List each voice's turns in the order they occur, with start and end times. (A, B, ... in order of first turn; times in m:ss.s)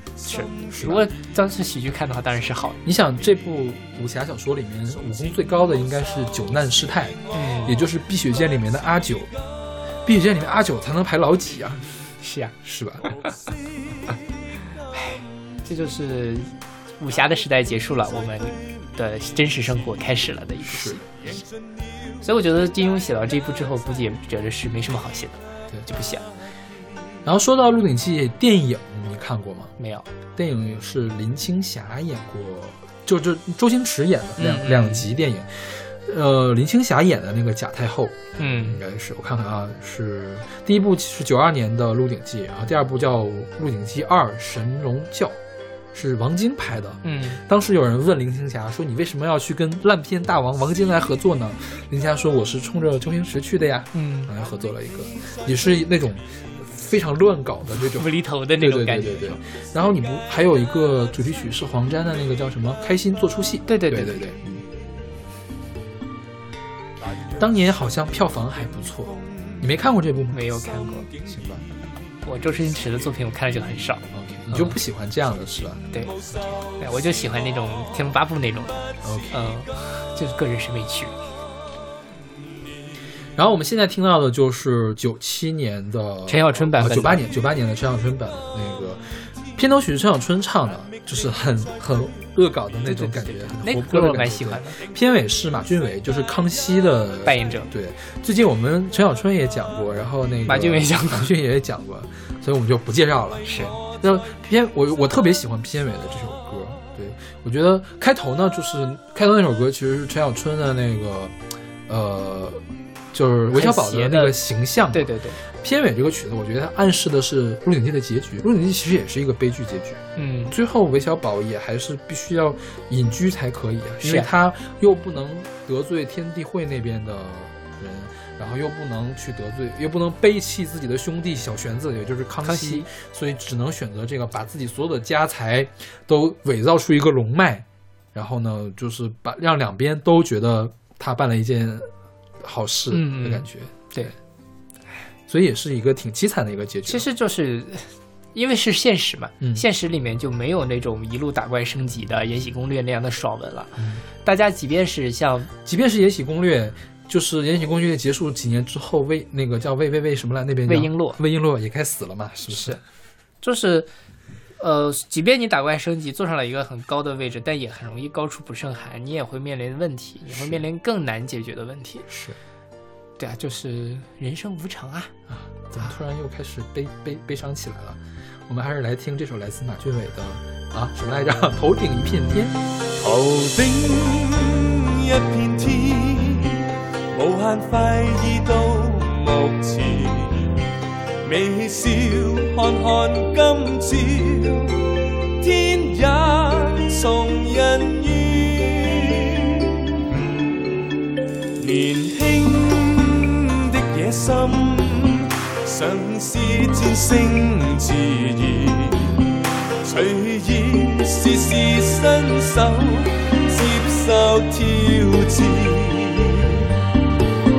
0:00.2-0:02.8 A
0:00.7-0:01.1 B
0:02.8-0:09.3 B
0:07.3-0:07.8 A
0:10.0-0:11.8 B
0:12.2-0:12.5 A
0:12.6-0:13.1 B
0:13.0-0:13.3 A
0:14.9-0:21.1 A
0:20.6-0:21.0 B
0:22.2-0:26.2 A
0:27.2-0:29.7 B
0:29.8-0:30.1 A
0:30.3-0:45.4 B
0:34.4-0:35.1 A
0:38.4-0:38.8 A
0:45.9-1:04.6 B
0:47.0-0:47.4 A
0:53.9-0:54.3 A
0:57.8-0:59.4 A
1:03.7-1:04.3 A
1:07.4-1:10.4 B
1:10.3-1:11.1 A
1:11.2-1:11.6 B
1:12.2-1:14.8 A
1:14.1-1:15.9 B
1:15.9-1:18.8 A
1:19.0-1:19.4 B
1:19.3-1:21.1 A
1:23.4-1:52.6 B
1:26.3-1:27.2 A
1:32.8-1:34.8 A
1:37.2-1:37.7 A
1:40.4-1:41.3 A
1:43.4-1:43.8 A
1:53.1-2:21.9 B
1:53.5-1:54.4 A
1:54.9-1:55.4 A
2:00.2-2:00.5 A
2:04.0-2:04.3 A
2:12.4-2:12.9 A
2:22.4-2:24.1 B
2:22.9-2:24.1 A
2:25.3-2:27.1 B
2:26.9-2:35.5 A
2:33.8-2:34.0 B
2:35.6-2:42.8 B
2:40.6-2:41.2 A
2:42.5-2:42.8 A
2:43.4-2:43.9 A
2:44.6-2:52.0 A
2:50.3-2:50.6 B
2:52.1-2:52.4 B
2:53.2-2:55.1 A
2:55.3-3:02.6 B
3:03.0-3:10.5 C
3:11.2-3:14.9 C
3:15.4-3:19.7 C
3:21.6-3:29.2 C
3:29.8-3:36.7 C